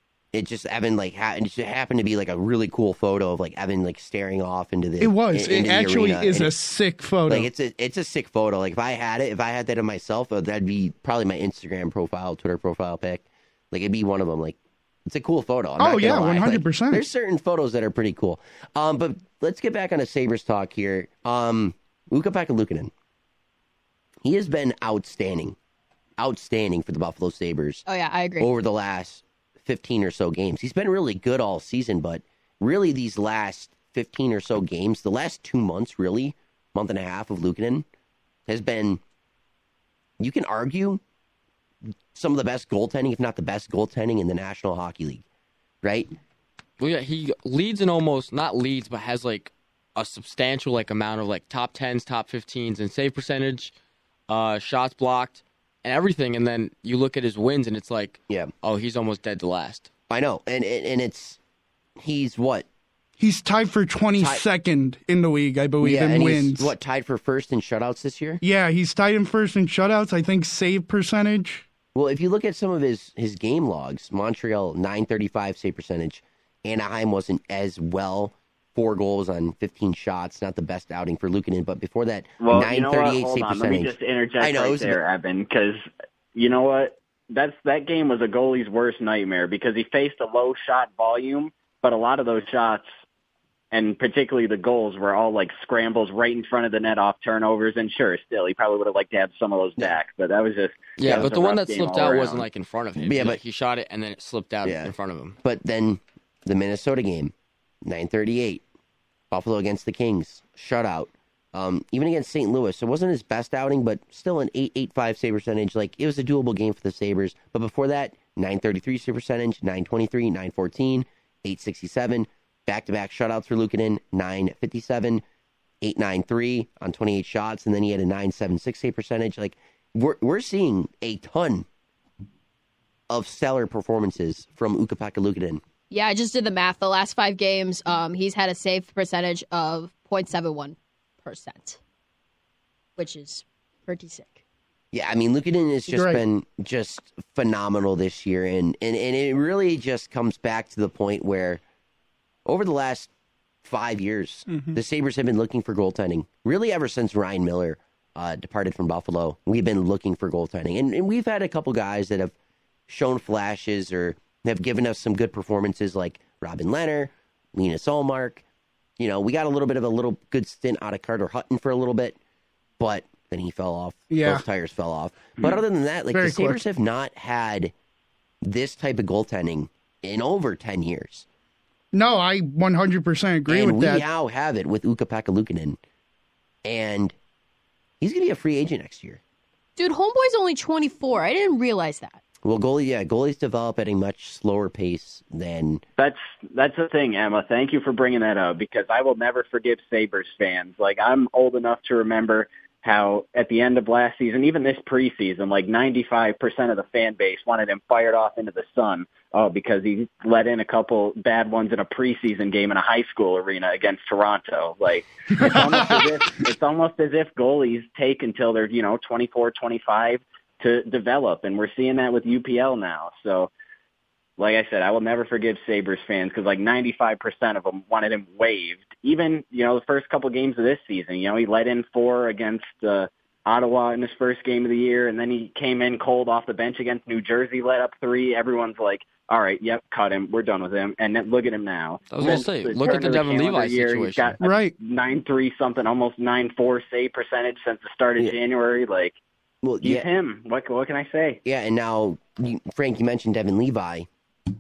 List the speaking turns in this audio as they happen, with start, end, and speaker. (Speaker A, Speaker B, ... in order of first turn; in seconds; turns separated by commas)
Speaker A: 0.3-6.5, Speaker B: 5.0-7.5, Speaker A: 7.3-22.9, Speaker B: 15.8-17.0, Speaker A: 24.2-25.6, Speaker A: 26.2-27.9, Speaker C: 27.9-28.5, Speaker A: 28.4-37.9, Speaker A: 38.5-39.0, Speaker A: 40.2-41.0, Speaker A: 42.1-45.2, Speaker A: 45.8-46.1, Speaker D: 46.8-53.7, Speaker D: 54.3-59.9, Speaker A: 60.1-61.4, Speaker A: 62.0-62.7, Speaker B: 63.2-66.7, Speaker A: 64.2-64.4, Speaker A: 65.8-68.4, Speaker B: 68.4-71.7, Speaker A: 72.0-85.0, Speaker E: 82.4-92.9, Speaker E: 93.7-102.5, Speaker D: 101.0-105.4, Speaker A: 101.0-101.3, Speaker A: 103.0-103.4, Speaker A: 104.6-104.9, Speaker A: 105.4-107.3, Speaker A: 107.8-108.6, Speaker A: 109.3-125.2, Speaker A: 125.8-131.7, Speaker A: 133.1-135.6, Speaker C: 135.9-141.8, Speaker C: 143.0-144.4, Speaker A: 144.9-151.6, Speaker B: 145.9-146.2, Speaker A: 152.5-153.1, Speaker A: 153.6-162.3, Speaker A: 162.9-168.4, Speaker A: 169.0-172.2, Speaker A: 172.8-177.7, Speaker B: 174.1-174.4, Speaker B: 176.1-176.6, Speaker A: 178.4-181.3, Speaker B: 181.9-184.1, Speaker A: 183.5-185.8, Speaker A: 186.6-187.2, Speaker A: 188.0-189.2, Speaker C: 189.8-192.2, Speaker A: 192.4-195.8, Speaker E: 196.0-223.5, Speaker B: 215.4-216.1, Speaker E: 224.4-249.2, Speaker D: 242.1-244.4, Speaker B: 244.4-244.7, Speaker A: 249.6-250.1, Speaker E: 249.8-251.4, Speaker A: 251.4-254.1